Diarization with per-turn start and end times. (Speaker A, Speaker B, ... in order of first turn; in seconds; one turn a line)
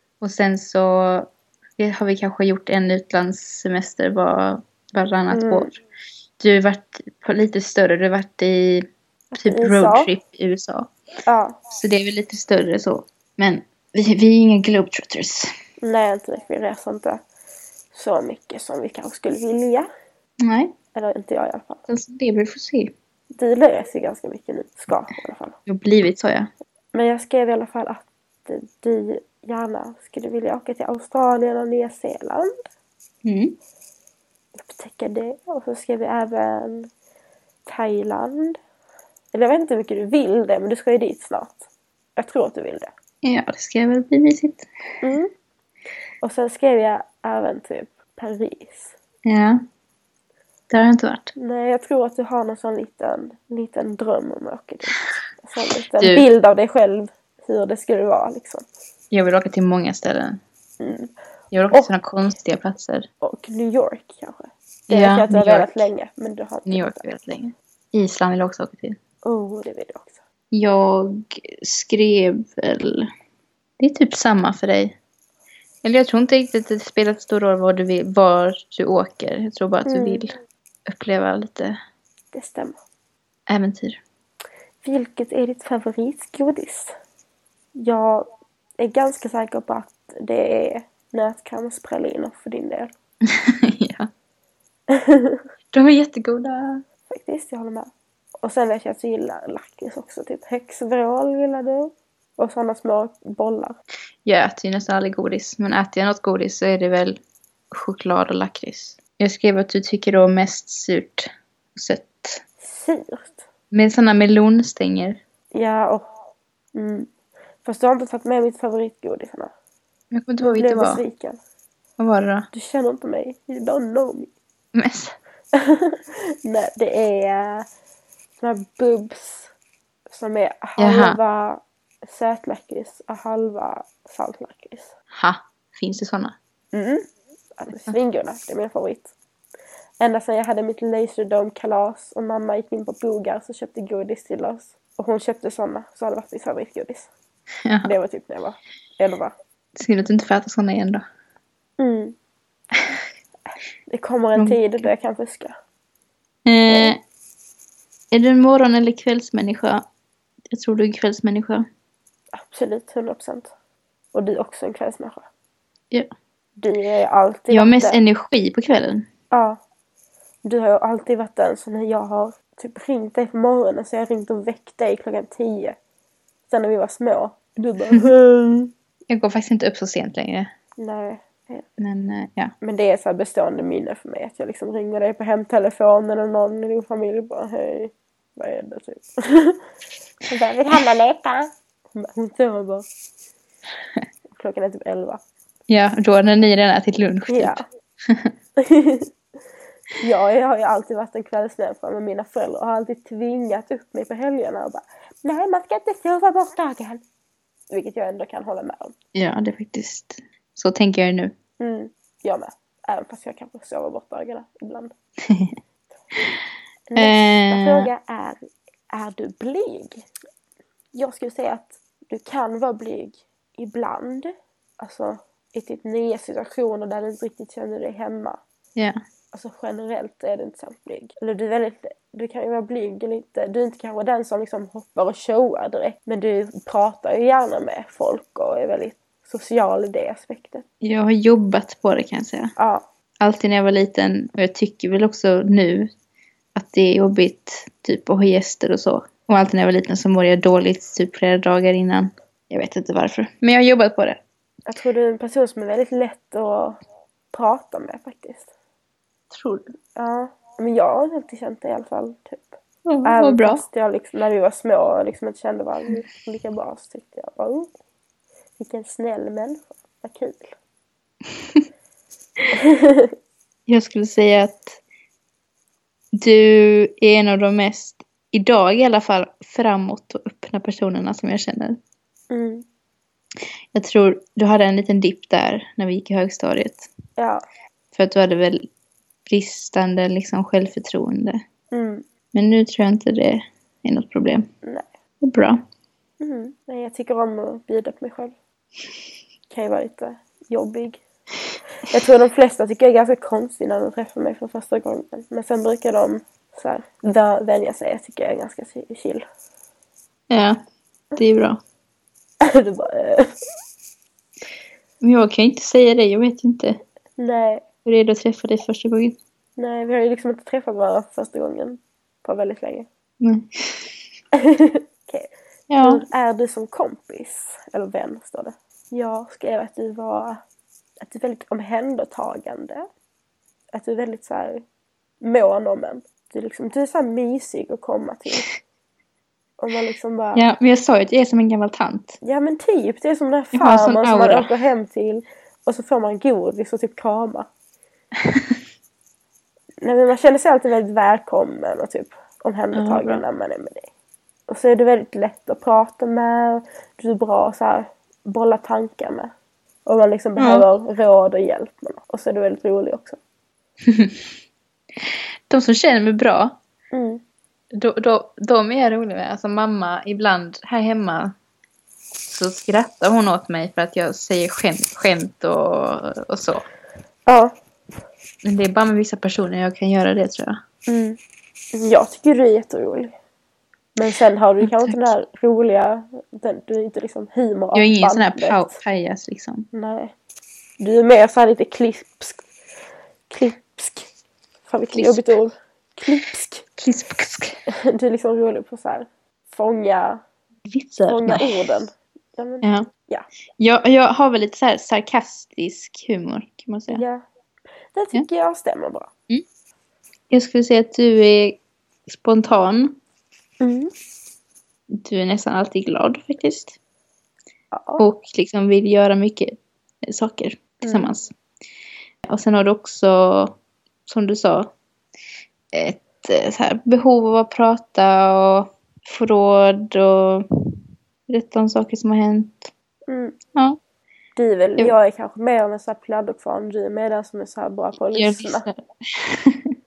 Speaker A: 0.2-5.7
Speaker B: 5.3-5.7
Speaker A: 6.4-8.9
Speaker B: 9.3-10.1
Speaker A: 9.4-10.9
Speaker B: 11.3-11.6
Speaker A: 11.7-15.5
Speaker B: 15.8-17.2
Speaker B: 17.9-19.9
Speaker A: 20.4-20.7
Speaker B: 20.9-21.8
Speaker A: 21.9-22.9
Speaker B: 23.3-25.6
Speaker A: 25.6-26.5
Speaker B: 26.9-32.7
Speaker A: 33.2-33.5
Speaker B: 34.5-36.9
Speaker B: 37.6-38.6
Speaker B: 39.3-42.9
Speaker A: 43.2-44.6
Speaker B: 45.0-45.3
Speaker B: 46.2-48.9
Speaker A: 49.2-49.6
Speaker A: 50.7-51.3
Speaker B: 51.4-58.6
Speaker A: 56.0-56.2
Speaker A: 59.1-60.4
Speaker B: 60.8-61.1
Speaker A: 61.5-63.0
Speaker B: 63.2-67.0
Speaker A: 64.9-65.9
Speaker A: 66.7-69.0
Speaker B: 69.2-70.2
Speaker A: 70.5-73.1
Speaker A: 73.8-75.0
Speaker A: 75.8-80.3
Speaker B: 79.8-80.2
Speaker A: 80.9-81.7
Speaker B: 82.3-82.8
Speaker A: 83.5-84.0
Speaker B: 84.8-86.9
Speaker B: 87.7-88.3
Speaker B: 88.8-92.9
Speaker A: 93.3-94.1
Speaker B: 94.9-95.4
Speaker A: 95.7-96.8
Speaker B: 97.1-103.8
Speaker A: 104.2-107.2
Speaker A: 107.7-112.4
Speaker B: 112.6-113.5
Speaker A: 113.7-115.2
Speaker B: 115.5-116.1
Speaker B: 116.7-117.1
Speaker B: 117.6-119.5
Speaker A: 120.1-121.0
Speaker B: 120.4-121.4
Speaker A: 122.0-122.5
Speaker B: 122.5-124.3
Speaker A: 124.7-125.2
Speaker B: 125.5-127.7
Speaker B: 128.4-129.5
Speaker B: 130.1-134.9
Speaker A: 130.8-131.2
Speaker A: 135.1-136.3
Speaker B: 136.7-137.1
Speaker B: 137.6-139.1
Speaker B: 140.0-147.1
Speaker B: 147.8-149.3
Speaker A: 149.7-151.0
Speaker B: 151.8-152.2
Speaker B: 153.9-155.6
Speaker A: 154.3-154.9
Speaker A: 156.4-157.0
Speaker B: 156.7-156.9
Speaker A: 158.1-159.8
Speaker A: 160.5-161.7
Speaker B: 162.3-163.5
Speaker B: 164.1-165.3
Speaker B: 166.6-168.0
Speaker A: 167.5-169.1
Speaker B: 169.3-169.6
Speaker B: 170.4-175.8
Speaker B: 176.5-178.7
Speaker A: 179.1-180.5
Speaker B: 180.8-181.7
Speaker A: 181.8-182.5
Speaker B: 182.6-189.6
Speaker B: 190.2-192.9
Speaker B: 194.3-195.2
Speaker A: 195.7-198.3
Speaker B: 197.3-197.6
Speaker B: 198.6-199.1
Speaker B: 200.0-207.0
Speaker B: 207.7-208.9
Speaker A: 209.1-211.3
Speaker B: 211.6-214.9
Speaker A: 215.3-215.5
Speaker B: 216.9-220.0
Speaker A: 216.9-217.9
Speaker B: 220.9-228.4
Speaker B: 229.3-240.7
Speaker A: 240.8-242.5
Speaker B: 242.6-242.8
Speaker A: 243.2-245.9
Speaker A: 246.5-254.2
Speaker B: 254.7-256.8
Speaker B: 257.3-258.5
Speaker A: 259.3-259.6
Speaker B: 259.9-262.5
Speaker A: 262.9-263.6
Speaker B: 263.0-267.7
Speaker B: 268.6-270.5
Speaker B: 272.5-273.1
Speaker A: 273.7-274.8
Speaker A: 276.2-281.8
Speaker B: 282.3-282.6
Speaker A: 283.7-286.9
Speaker B: 287.2-287.4
Speaker A: 287.9-288.7
Speaker A: 289.2-291.4
Speaker B: 291.7-292.1
Speaker A: 292.3-294.5
Speaker A: 295.2-295.6
Speaker B: 296.2-298.3
Speaker B: 299.5-301.0
Speaker B: 301.9-309.2
Speaker A: 310.3-310.6
Speaker A: 311.2-311.6
Speaker B: 312.4-313.3
Speaker A: 315.0-316.8
Speaker B: 317.2-317.6
Speaker A: 317.8-319.2
Speaker B: 319.6-322.9
Speaker A: 323.2-323.9
Speaker B: 324.4-330.4
Speaker A: 325.7-326.0
Speaker B: 331.0-332.9
Speaker B: 333.7-334.6
Speaker B: 335.2-338.5
Speaker B: 339.6-340.5
Speaker A: 340.3-342.2
Speaker B: 342.2-347.5
Speaker A: 343.5-344.5
Speaker A: 348.2-348.6
Speaker B: 349.8-353.9
Speaker A: 352.7-353.2
Speaker B: 354.5-359.3
Speaker B: 359.9-363.2
Speaker A: 360.4-360.6
Speaker A: 363.8-364.2
Speaker A: 365.0-366.6
Speaker B: 366.9-367.2
Speaker A: 367.7-371.3
Speaker A: 372.3-376.6
Speaker B: 377.3-377.5
Speaker A: 378.4-380.6
Speaker B: 380.9-381.2
Speaker B: 381.7-383.1
Speaker B: 383.9-388.8
Speaker A: 384.6-385.1
Speaker A: 387.7-389.7
Speaker B: 389.7-390.1
Speaker B: 390.8-392.4
Speaker B: 393.3-394.1
Speaker B: 394.7-396.6
Speaker A: 394.9-395.3
Speaker A: 396.8-397.6
Speaker B: 397.7-400.2
Speaker A: 400.7-401.6
Speaker B: 401.1-403.2
Speaker A: 402.6-402.9
Speaker A: 403.6-407.0
Speaker B: 406.9-407.2
Speaker B: 407.9-409.1
Speaker A: 410.3-413.0
Speaker B: 413.6-413.9
Speaker A: 414.9-416.8
Speaker B: 417.7-418.0
Speaker A: 418.0-421.3
Speaker B: 420.8-421.1
Speaker A: 422.3-424.7
Speaker A: 425.7-430.4
Speaker A: 431.3-432.7
Speaker B: 433.1-433.4
Speaker B: 434.4-438.7
Speaker A: 438.1-439.7